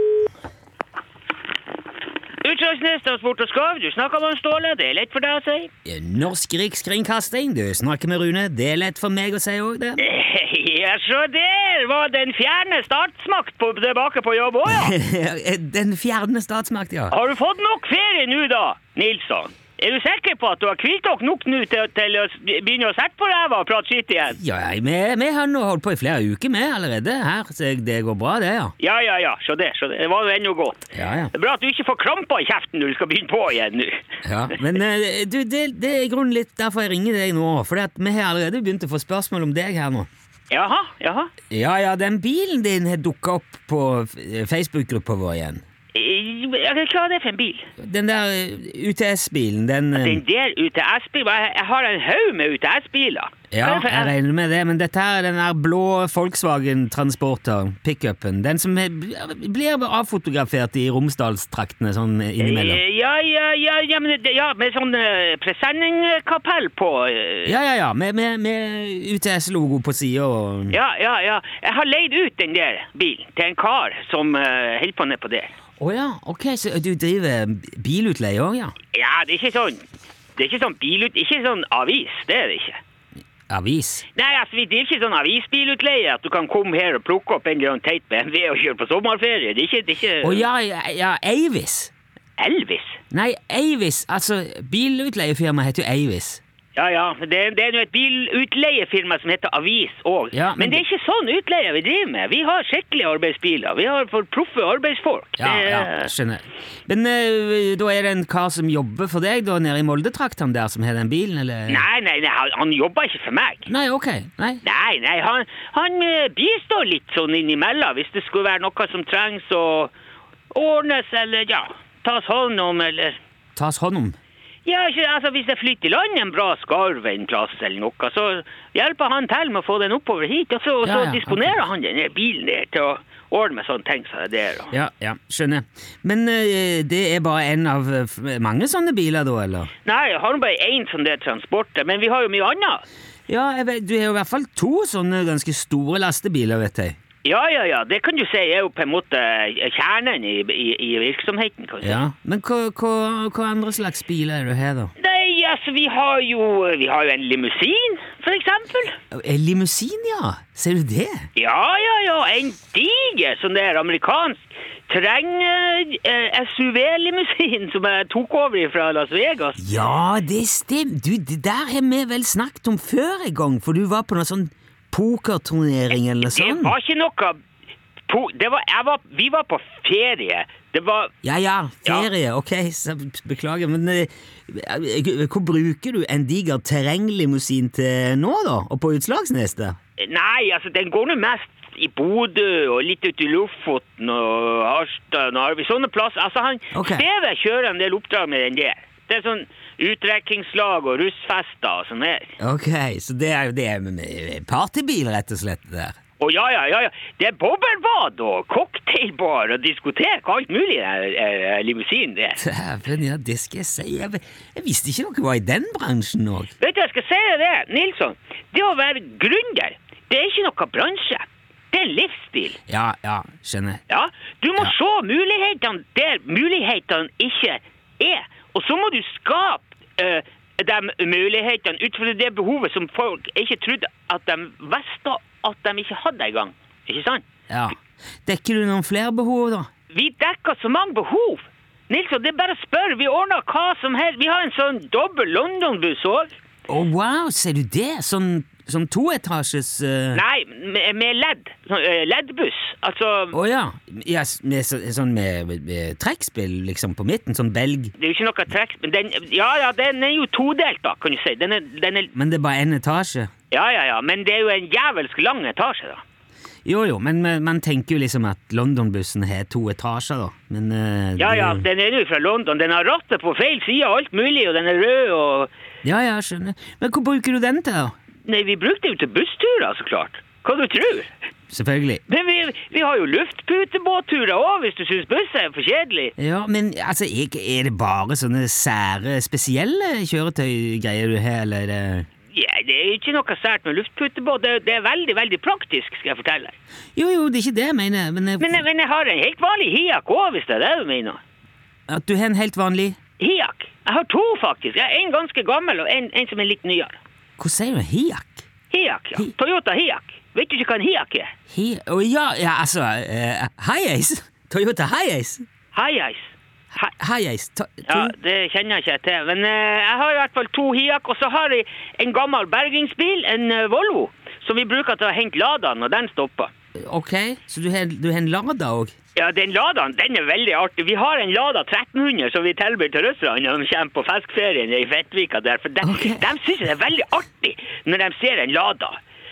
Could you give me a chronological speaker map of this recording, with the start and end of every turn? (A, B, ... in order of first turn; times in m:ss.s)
0:02.4-0:05.7 A
0:05.8-0:10.0 B
0:10.0-0:14.9 A
0:14.6-0:17.2 B
0:17.1-0:24.4 A
0:24.3-0:28.7 B
0:28.8-0:34.0 A
0:30.9-0:31.3 B
0:34.2-0:40.1 B
0:40.5-0:41.3 A
0:41.5-0:45.6 B
0:45.9-0:47.7 A
0:47.8-0:50.2 B
0:49.9-0:54.1 A
0:53.5-1:02.8 B
1:02.4-1:07.5 A
1:07.4-1:10.8 B
1:10.7-1:15.5 A
1:15.8-1:18.7 B
1:18.9-1:19.8 A
1:20.4-1:22.8 A
1:23.5-1:24.0 B
1:24.2-1:30.4 A
1:30.2-1:31.9 B
1:32.4-1:33.0 A
1:33.1-1:36.4 B
1:36.8-1:46.1 A
1:40.3-1:40.8 B
1:45.4-1:51.8 B
1:51.7-1:53.7 A
1:53.7-1:54.6 B
1:54.6-1:59.9 A
2:00.5-2:03.2 A
2:03.6-2:04.2 B
2:04.6-2:14.7 A
2:10.8-2:11.6 B
2:14.7-2:19.7 B
2:19.8-2:22.8 A
2:23.3-2:27.0 B
2:27.2-2:32.0 A
2:31.8-2:34.9 B
2:35.0-2:39.0 A
2:39.1-2:41.3 B
2:41.4-2:49.6 A
2:49.6-2:56.7 B
2:56.2-2:57.4 A
2:58.1-3:01.1 A
3:01.2-3:09.8 B
3:10.0-3:22.4 A
3:16.7-3:17.0 B
3:22.4-3:26.0 B
3:26.2-3:32.4 A
3:32.4-3:36.5 B
3:36.6-3:42.6 A
3:42.7-3:43.8 B
3:43.9-3:57.2 A
3:57.5-3:59.7 B
3:59.9-4:06.3 A
4:06.7-4:10.2 B
4:10.1-4:13.4 A
4:13.3-4:17.9 B
4:18.0-4:22.1 A
4:22.1-4:23.3 B
4:23.5-4:26.0 A
4:26.6-4:31.6 B
4:31.2-4:35.5 A
4:35.8-4:37.9 B
4:38.3-4:41.1 A
4:41.5-4:42.0 B
4:42.1-4:46.1 A
4:46.2-4:52.1 B
4:52.3-4:56.5 A
4:57.0-4:58.6 B
4:58.4-5:01.2 A
5:01.9-5:03.0 B
5:03.2-5:07.0 A
5:07.4-5:08.4 B
5:08.7-5:11.3 A
5:11.5-5:15.4 B
5:15.7-5:16.9 A
5:16.8-5:18.1 B
5:17.9-5:26.5 A
5:26.7-5:28.9 B
5:29.2-5:39.0 A
5:35.8-5:36.3 B